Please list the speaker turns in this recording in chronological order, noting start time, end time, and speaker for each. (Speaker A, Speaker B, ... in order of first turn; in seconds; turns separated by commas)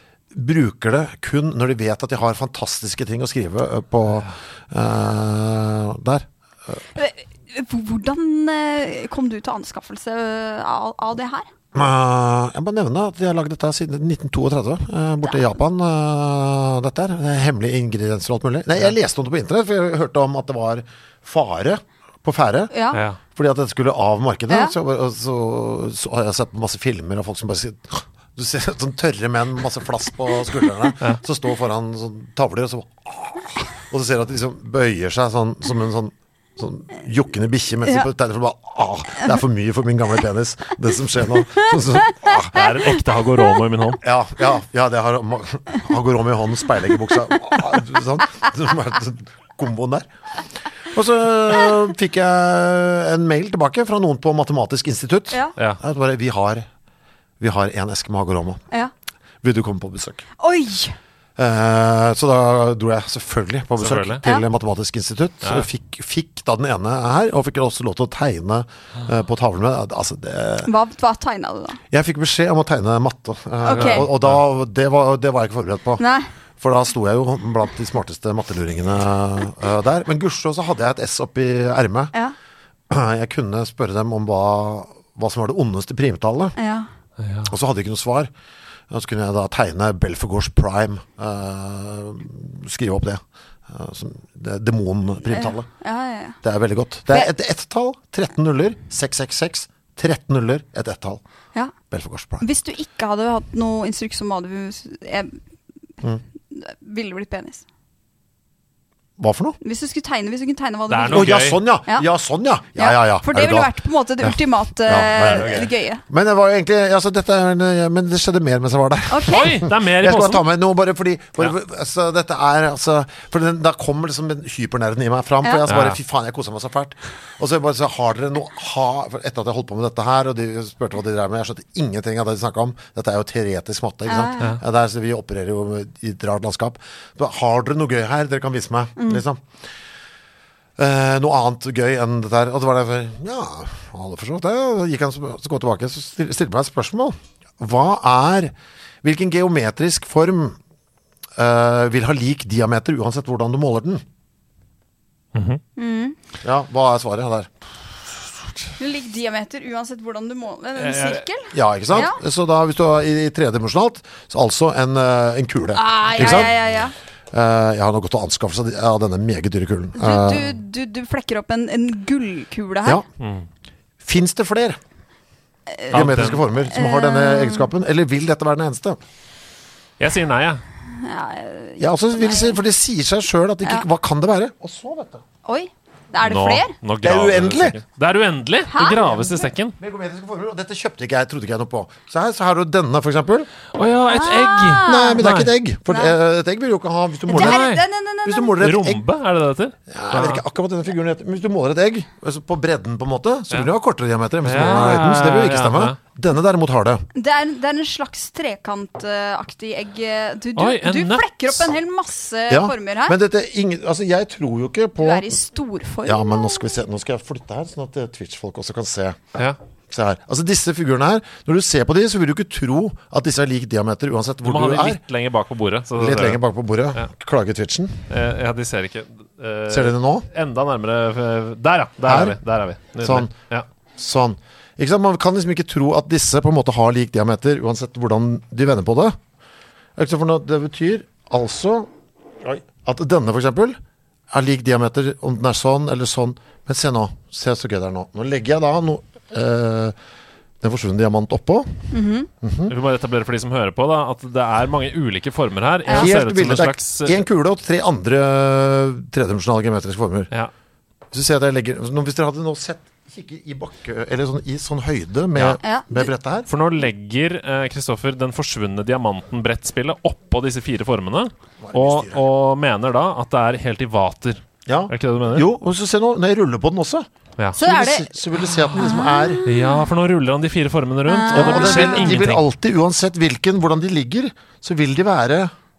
Speaker A: 0.3-6.8, Speaker B: 7.0-11.5, Speaker A: 11.7-22.7, Speaker B: 22.7-23.0, Speaker C: 22.9-23.2, Speaker A: 23.3-42.5, Speaker C: 42.5-44.0, Speaker A: 44.0-50.1, Speaker A: 50.9-56.7, Speaker A: 57.4-58.6, Speaker A: 59.4-60.2, Speaker B: 60.4-61.0, Speaker A: 61.4-70.7, Speaker C: 63.8-64.2, Speaker B: 70.6-71.8, Speaker A: 71.9-76.0, Speaker B: 73.6-74.1, Speaker C: 73.8-74.4, Speaker B: 76.0-76.3, Speaker A: 76.6-82.1, Speaker A: 82.9-86.6, Speaker B: 86.6-86.9, Speaker C: 87.2-87.5, Speaker A: 87.5-88.3, Speaker A: 88.9-95.7, Speaker B: 95.3-96.4, Speaker A: 96.4-101.2, Speaker A: 101.9-102.5, Speaker B: 102.4-105.4, Speaker B: 106.5-107.6, Speaker A: 109.2-109.6, Speaker B: 109.6-112.1, Speaker C: 110.9-111.6, Speaker A: 111.1-139.5, Speaker B: 112.8-116.0, Speaker C: 115.3-115.7, Speaker B: 119.1-119.6, Speaker C: 119.3-120.5, Speaker C: 125.7-126.0, Speaker B: 134.1-134.5, Speaker A: 140.8-150.6, Speaker A: 151.4-154.0, Speaker C: 155.3-155.6, Speaker B: 155.8-156.2, Speaker A: 156.4-157.6, Speaker B: 158.8-162.2, Speaker C: 160.8-161.2, Speaker A: 161.5-166.6, Speaker B: 165.8-166.9, Speaker A: 167.3-170.5, Speaker B: 170.0-173.0, Speaker C: 173.2-173.5, Speaker A: 174.0-174.8, Speaker A: 175.9-179.0, Speaker C: 175.9-176.4, Speaker B: 176.6-177.7, Speaker C: 180.0-180.6, Speaker B: 181.0-182.6, Speaker A: 181.8-185.2, Speaker B: 185.4-186.7, Speaker C: 186.2-189.8, Speaker A: 187.0-187.8, Speaker B: 188.7-189.5, Speaker A: 189.8-193.5, Speaker C: 193.7-195.5, Speaker B: 194.1-195.2, Speaker A: 194.8-197.7, Speaker B: 195.9-196.2, Speaker B: 197.3-198.6, Speaker C: 197.3-197.8, Speaker A: 198.2-199.1, Speaker C: 198.6-200.4, Speaker A: 199.9-207.1, Speaker C: 204.4-206.0, Speaker B: 207.1-213.2, Speaker C: 210.6-211.7, Speaker A: 212.5-215.4, Speaker B: 215.0-216.6, Speaker A: 216.1-219.2, Speaker A: 219.9-225.0, Speaker C: 224.4-226.4, Speaker A: 226.0-228.1, Speaker C: 228.1-233.7, Speaker A: 229.7-230.3, Speaker A: 232.0-232.4, Speaker A: 233.0-233.3, Speaker A: 234.0-239.2, Speaker A: 240.0-241.9, Speaker A: 242.4-243.8, Speaker A: 244.3-249.9, Speaker A: 250.6-252.7, Speaker B: 251.9-252.3, Speaker C: 252.7-257.2, Speaker A: 255.9-260.3, Speaker A: 261.1-266.5, Speaker B: 265.6-266.1, Speaker C: 266.5-275.5, Speaker A: 271.6-272.2, Speaker A: 274.7-279.4, Speaker B: 277.6-278.1, Speaker B: 278.8-279.6, Speaker C: 279.5-282.4, Speaker B: 281.1-282.2, Speaker A: 281.3-285.5